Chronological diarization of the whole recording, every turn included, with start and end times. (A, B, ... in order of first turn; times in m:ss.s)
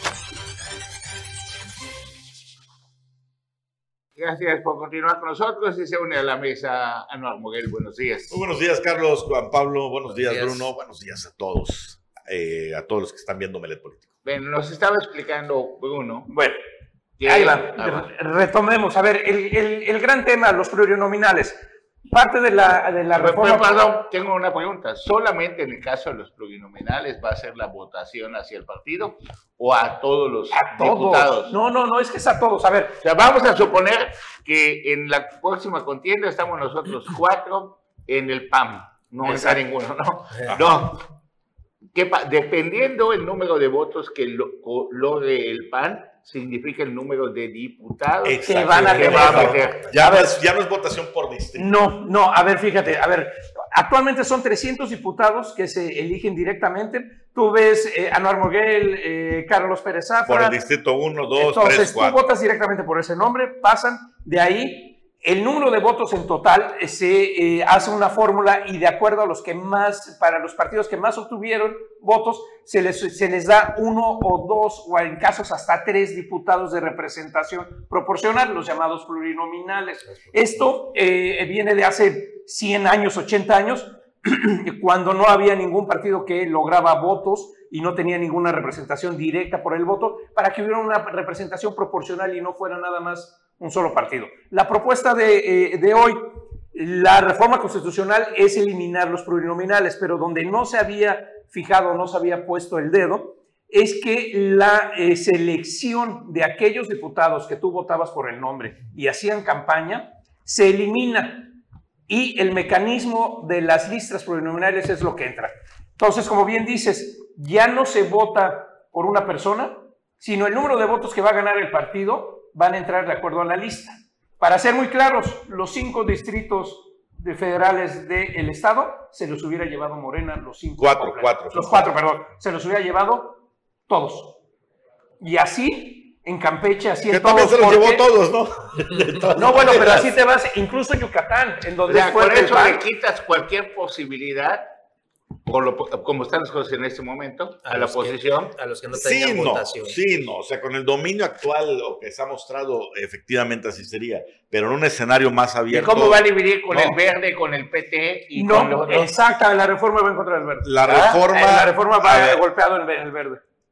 0:04.2-0:08.5 A
0:08.3-0:14.1 B
0:10.1-0:10.7 C
0:14.2-0:16.3 A
0:16.3-0:16.6 D
0:17.2-0:18.1 A
0:17.2-0:21.6 D
0:22.1-0:23.8 D
0:23.2-0:31.5 A
0:30.5-0:33.0 D
0:33.0-0:41.0 A
0:39.2-0:39.6 D
0:40.5-0:40.8 B
0:41.9-0:49.9 A
0:48.2-0:51.8 B
0:48.4-0:50.4 D
0:51.6-1:00.6 D
1:00.3-1:02.2 B
1:01.4-1:51.6 D
1:20.1-1:20.6 C
1:52.1-2:14.4 D
2:10.8-2:11.9 B
2:15.2-2:18.1 D
2:17.1-2:20.1 B
2:19.3-2:22.8 D
2:21.9-2:24.7 A
2:25.5-2:28.6 A
2:27.6-2:30.0 C
2:28.9-2:37.0 B
2:35.7-2:39.2 A
2:38.3-2:40.7 D
2:40.6-2:42.4 B
2:40.9-2:41.3 A
2:41.3-2:43.4 D